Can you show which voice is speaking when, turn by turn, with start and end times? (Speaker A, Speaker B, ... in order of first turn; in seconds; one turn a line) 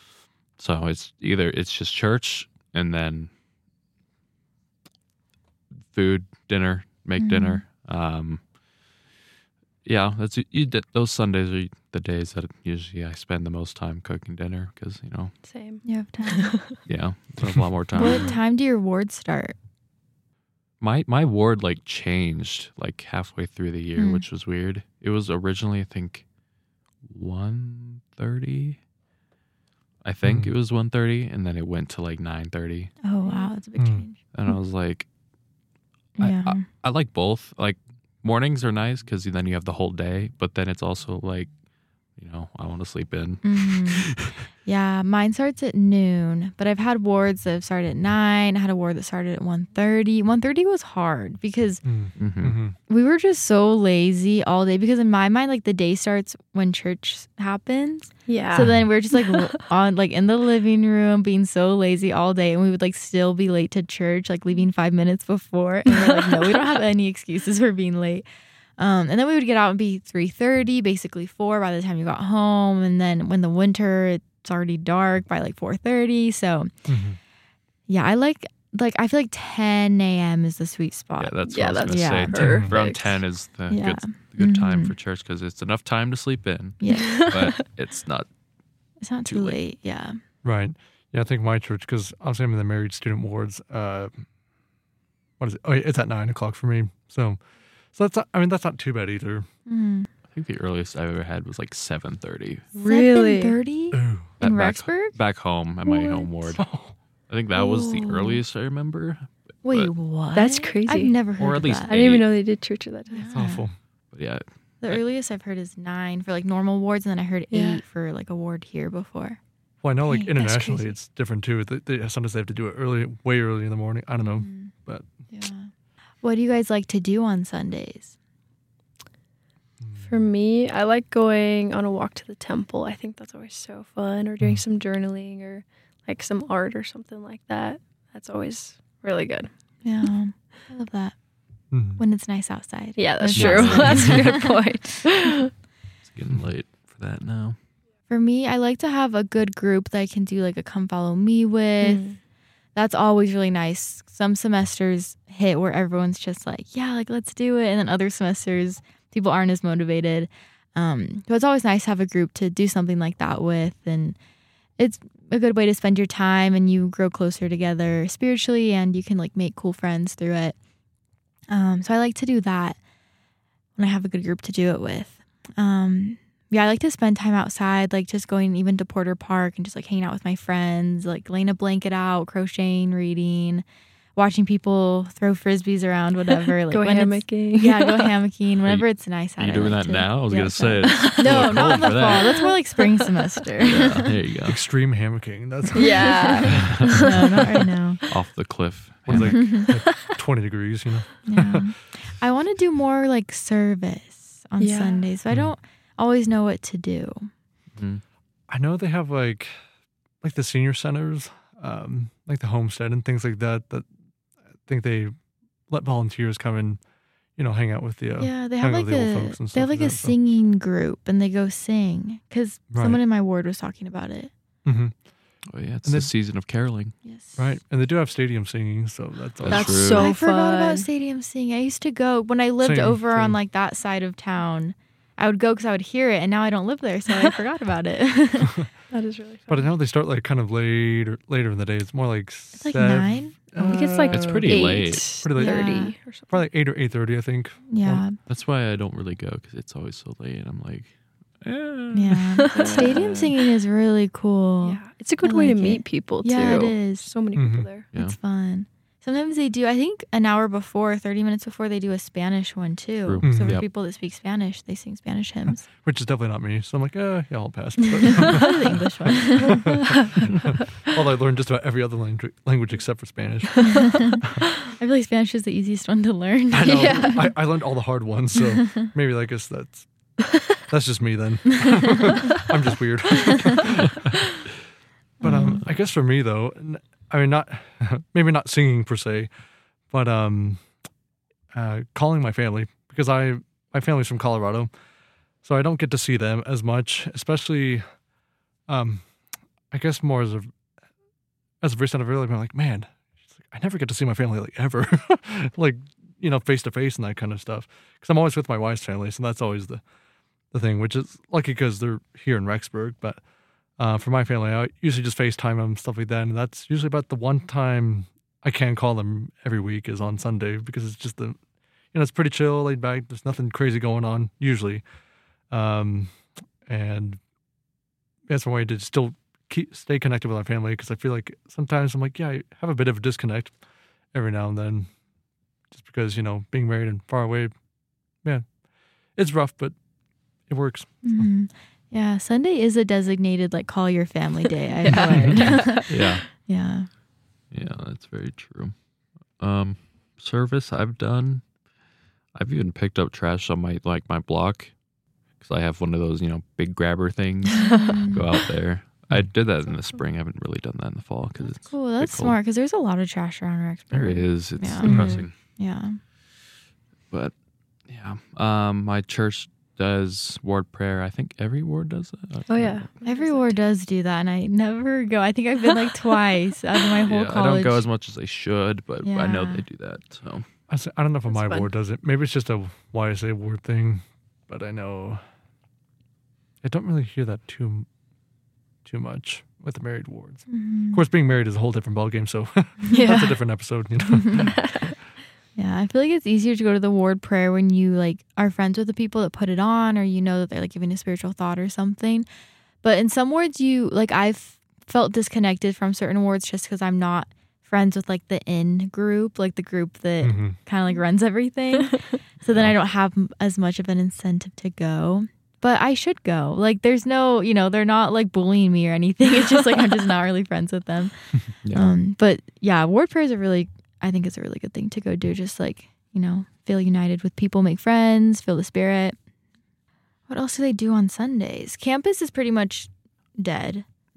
Speaker A: 0.6-3.3
Speaker A: 5.8-8.5
Speaker B: 7.2-7.6
Speaker A: 9.8-15.4
Speaker C: 15.4-16.8
Speaker B: 15.8-16.6
Speaker A: 16.9-18.4
Speaker D: 17.4-17.6
Speaker B: 17.9-19.6
Speaker A: 20.8-26.3
Speaker B: 24.0-24.2
Speaker A: 27.1-28.8
Speaker A: 30.0-33.0
Speaker D: 30.2-30.5
Speaker B: 33.0-34.2
Speaker C: 33.2-33.5
Speaker D: 33.8-34.0
Speaker A: 34.3-35.1
Speaker B: 36.2-36.6
Speaker A: 36.2-41.5
Speaker A: 42.1-44.4
Speaker B: 43.4-44.1
Speaker B: 44.6-51.8
Speaker D: 51.8-52.8
Speaker A: 52.2-52.6
Speaker B: 52.9-68.2
Speaker C: 58.3-59.4
Speaker C: 65.9-66.3
Speaker B: 68.8-76.7
Speaker D: 76.9-77.2
Speaker B: 77.9-82.3
Speaker A: 81.2-88.3
Speaker C: 81.5-83.2
Speaker D: 82.3-82.7
Speaker B: 83.7-84.9
Speaker B: 86.8-87.2
Speaker C: 86.9-87.5
Speaker B: 89.0-90.2
Speaker A: 89.2-89.6
Speaker D: 90.4-94.2
Speaker D: 95.4-97.4
Speaker D: 97.9-99.5
Speaker B: 99.7-100.1
Speaker A: 100.3-102.7
Speaker B: 102.8-105.2
Speaker C: 102.8-103.6
Speaker D: 103.9-104.3
Speaker A: 104.4-106.7
Speaker B: 105.8-106.5
Speaker D: 106.6-106.9
Speaker A: 107.3-109.9
Speaker B: 107.5-108.4
Speaker B: 109.7-112.0
Speaker C: 110.3-111.2
Speaker A: 111.4-112.3
Speaker C: 111.9-113.4
Speaker B: 113.1-113.7
Speaker D: 113.3-113.8
Speaker A: 114.1-115.0
Speaker B: 114.8-119.4
Speaker C: 117.5-117.8
Speaker D: 119.8-125.1
Speaker B: 120.1-120.9
Speaker B: 124.4-124.7
Speaker B: 125.3-125.7
Speaker B: 126.2-128.2
Speaker D: 129.8-130.1
Speaker C: 130.0-139.5
Speaker B: 139.8-141.2
Speaker D: 141.7-142.0
Speaker B: 142.0-144.6
Speaker C: 143.0-145.5
Speaker A: 143.4-144.2
Speaker A: 146.0-147.6
Speaker B: 148.1-152.1
Speaker C: 151.8-152.2
Speaker B: 152.8-164.2
Speaker B: 164.8-170.6
Speaker B: 171.5-172.8
Speaker B: 173.8-183.6
Speaker B: 184.2-194.0
Speaker C: 186.7-188.1
Speaker A: 188.7-192.5
Speaker C: 190.8-191.5
Speaker C: 192.0-192.8
Speaker A: 193.7-194.6
Speaker D: 194.4-197.2
Speaker C: 195.8-197.1
Speaker B: 195.8-198.0
Speaker A: 196.5-197.2
Speaker A: 198.1-199.4
Speaker D: 199.1-201.7
Speaker B: 199.3-199.7
Speaker C: 199.7-200.1
Speaker B: 201.2-207.3
Speaker C: 204.6-205.1
Speaker A: 207.8-208.0
Speaker D: 208.5-209.6
Speaker D: 210.2-213.9
Speaker D: 214.6-215.2
Speaker D: 215.7-216.8
Speaker D: 217.3-220.2
Speaker B: 218.2-224.3
Speaker D: 222.7-223.0
Speaker D: 224.7-225.1
Speaker A: 225.5-227.0
Speaker D: 225.8-226.1
Speaker B: 227.0-227.5
Speaker D: 227.4-229.9
Speaker A: 229.4-230.1
Speaker C: 229.5-230.9
Speaker B: 230.0-238.6
Speaker D: 232.6-233.4
Speaker C: 238.9-239.7
Speaker D: 239.5-248.1
Speaker B: 242.6-243.3
Speaker C: 243.6-246.5
Speaker A: 244.1-245.1
Speaker B: 245.4-245.9
Speaker B: 247.7-248.2
Speaker A: 248.3-253.3
Speaker B: 251.9-257.1
Speaker C: 252.5-252.9
Speaker C: 254.6-257.9
Speaker D: 257.3-257.7
Speaker B: 257.9-265.6
Speaker A: 263.1-263.7
Speaker D: 263.2-263.6
Speaker D: 265.7-274.4
Speaker B: 268.2-269.8
Speaker B: 273.6-274.2
Speaker B: 274.8-277.2
Speaker D: 276.5-280.1
Speaker C: 276.6-277.4
Speaker D: 280.7-284.4
Speaker D: 285.2-289.3
Speaker B: 285.2-285.6
Speaker D: 289.9-290.7
Speaker D: 291.5-294.7
Speaker D: 295.4-298.0
Speaker D: 298.7-299.1
Speaker D: 299.7-300.5
Speaker D: 301.6-309.8
Speaker D: 310.5-313.2
Speaker D: 313.8-321.4
Speaker D: 321.9-324.8
Speaker D: 325.5-327.2
Speaker D: 328.3-333.6
Speaker D: 334.1-334.9
Speaker D: 335.7-337.6
Speaker D: 338.2-338.6
Speaker D: 339.1-339.8
Speaker D: 340.4-341.3
Speaker B: 341.0-346.9
Speaker C: 344.8-346.1
Speaker A: 345.7-346.3
Speaker A: 347.5-351.6
Speaker A: 352.3-354.8
Speaker A: 355.4-362.4
Speaker C: 357.7-358.0
Speaker B: 357.7-358.2
Speaker B: 361.4-366.0
Speaker A: 363.9-365.3
Speaker D: 364.8-365.2
Speaker C: 364.9-365.2
Speaker A: 367.1-372.9
Speaker C: 372.5-373.6
Speaker B: 373.0-377.8
Speaker A: 377.1-380.5
Speaker B: 379.0-379.6
Speaker D: 380.7-385.2
Speaker C: 381.3-381.7
Speaker D: 386.6-387.9
Speaker D: 388.9-394.8
Speaker B: 390.5-391.0
Speaker B: 392.9-393.4
Speaker B: 395.6-402.3
Speaker B: 402.8-429.2
Speaker D: 410.2-410.6
Speaker A: 421.6-421.9
Speaker B: 430.3-433.9